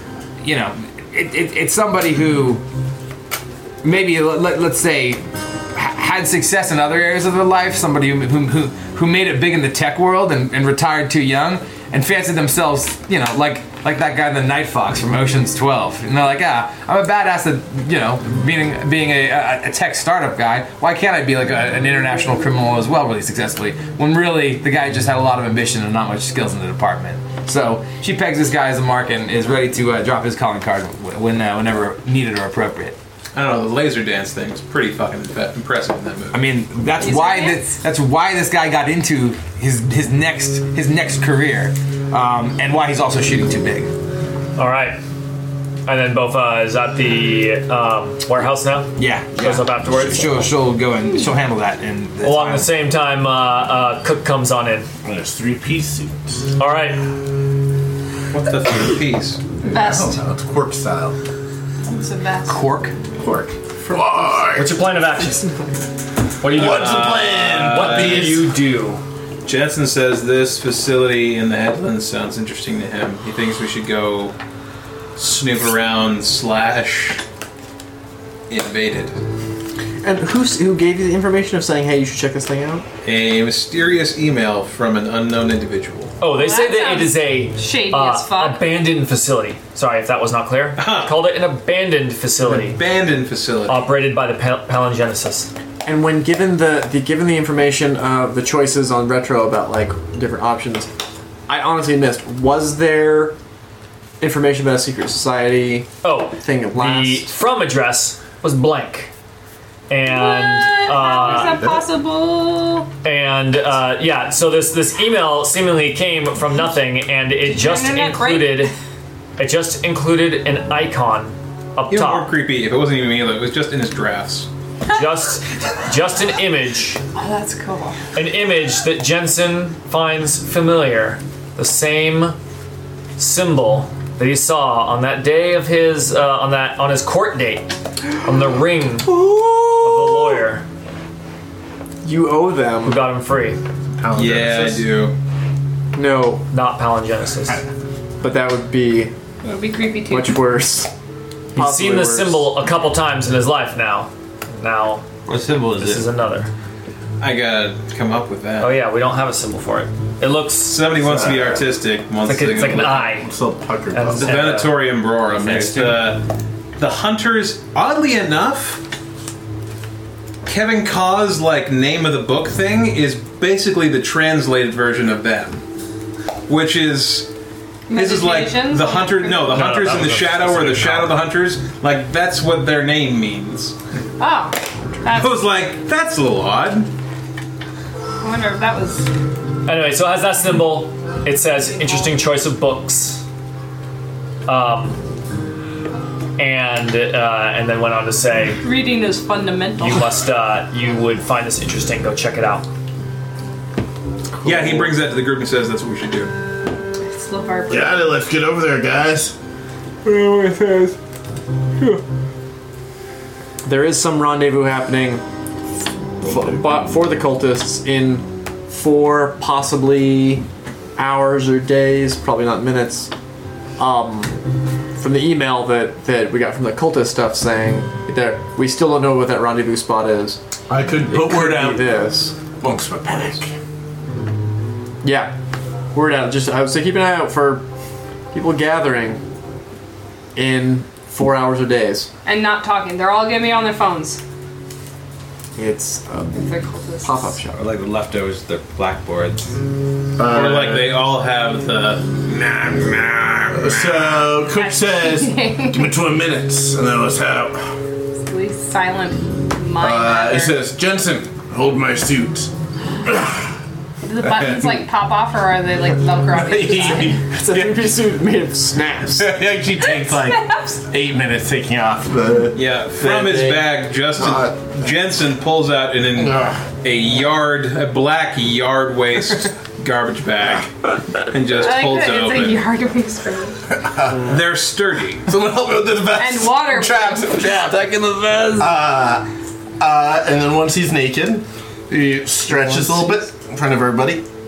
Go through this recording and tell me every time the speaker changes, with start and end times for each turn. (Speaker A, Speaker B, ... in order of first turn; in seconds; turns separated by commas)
Speaker A: 0.4-2.6, Speaker A: 3.8-33.0, Speaker B: 33.3-36.5, Speaker A: 36.3-43.9, Speaker C: 37.0-37.7, Speaker D: 44.6-45.0, Speaker D: 45.9-50.4, Speaker A: 49.0-52.7, Speaker D: 52.2-54.9, Speaker E: 55.0-56.4, Speaker D: 56.6-57.0, Speaker B: 58.3-59.6, Speaker C: 59.6-60.2, Speaker E: 59.7-61.2, Speaker C: 61.9-62.6, Speaker D: 62.5-62.9, Speaker E: 63.1-64.8, Speaker F: 63.9-64.4, Speaker D: 64.5-65.7, Speaker D: 66.4-69.0, Speaker E: 66.4-68.5, Speaker B: 66.5-68.4, Speaker B: 69.4-74.4, Speaker B: 75.2-77.2, Speaker B: 78.5-79.2, Speaker F: 80.0-82.9, Speaker B: 83.0-86.1, Speaker D: 86.2-92.8, Speaker C: 86.3-88.7, Speaker B: 90.8-91.2, Speaker B: 92.4-93.9, Speaker D: 93.7-95.5, Speaker F: 95.8-100.9, Speaker F: 101.5-103.4, Speaker F: 104.2-107.3, Speaker D: 106.0-109.1, Speaker D: 109.9-111.6, Speaker C: 110.0-112.9, Speaker E: 111.5-111.9, Speaker D: 113.0-118.7, Speaker C: 117.4-118.7, Speaker D: 119.4-122.3, Speaker B: 121.9-124.5, Speaker D: 124.9-127.0, Speaker C: 127.1-128.0, Speaker D: 128.1-132.4, Speaker D: 133.2-139.1, Speaker F: 139.0-140.4, Speaker D: 139.8-140.6, Speaker F: 142.0-143.0, Speaker D: 142.8-143.6, Speaker E: 144.0-144.9, Speaker B: 144.1-145.1, Speaker F: 145.9-146.4, Speaker D: 146.5-147.6, Speaker F: 148.2-149.1, Speaker C: 149.4-150.3, Speaker F: 150.1-150.9, Speaker F: 151.5-152.5, Speaker D: 151.5-155.1, Speaker A: 155.2-156.1, Speaker D: 155.8-156.5, Speaker B: 157.2-158.8, Speaker D: 158.6-160.8, Speaker B: 160.7-163.1, Speaker E: 160.9-161.7, Speaker D: 162.2-163.3, Speaker E: 162.6-164.5, Speaker D: 163.9-166.0, Speaker B: 164.2-168.8, Speaker B: 170.4-175.6, Speaker B: 176.5-177.3, Speaker C: 177.9-179.7, Speaker B: 177.9-183.8, Speaker D: 179.4-181.2, Speaker C: 184.2-185.4, Speaker B: 185.1-186.9, Speaker C: 188.2-189.1, Speaker D: 189.7-193.2, Speaker C: 191.7-192.0, Speaker D: 194.4-195.0, Speaker D: 196.4-198.7, Speaker C: 198.6-200.1, Speaker D: 199.8-202.7, Speaker B: 204.4-206.3, Speaker F: 204.5-204.8, Speaker C: 207.0-208.2, Speaker E: 207.7-209.3, Speaker F: 210.0-210.9, Speaker F: 213.6-215.2, Speaker F: 216.2-220.4, Speaker F: 220.9-223.1, Speaker F: 223.8-224.4, Speaker F: 224.9-230.4, Speaker E: 230.7-231.9, Speaker F: 231.1-232.4, Speaker E: 232.6-233.5, Speaker F: 235.0-235.3, Speaker F: 235.9-237.7, Speaker F: 238.3-239.2, Speaker F: 240.3-242.1, Speaker C: 242.2-244.2, Speaker F: 245.6-246.4, Speaker C: 246.3-247.3, Speaker F: 247.0-247.6, Speaker A: 247.5-249.5, Speaker E: 250.2-251.0, Speaker B: 250.2-252.2, Speaker A: 252.3-254.1, Speaker E: 253.5-257.7, Speaker C: 254.5-255.9, Speaker C: 258.2-260.6, Speaker E: 259.8-262.5, Speaker E: 263.1-263.4, Speaker C: 264.1-267.2, Speaker E: 264.2-264.9, Speaker E: 266.3-267.8, Speaker F: 267.1-269.4, Speaker E: 269.2-273.6, Speaker C: 269.8-270.8, Speaker B: 272.5-282.6, Speaker E: 274.1-274.7, Speaker E: 276.2-276.5, Speaker C: 281.5-283.6, Speaker E: 283.7-284.4, Speaker B: 284.1-285.3, Speaker E: 285.2-287.9, Speaker C: 286.1-287.4, Speaker A: 287.6-288.7, Speaker E: 288.6-289.2, Speaker E: 289.8-294.2, Speaker F: 292.5-293.2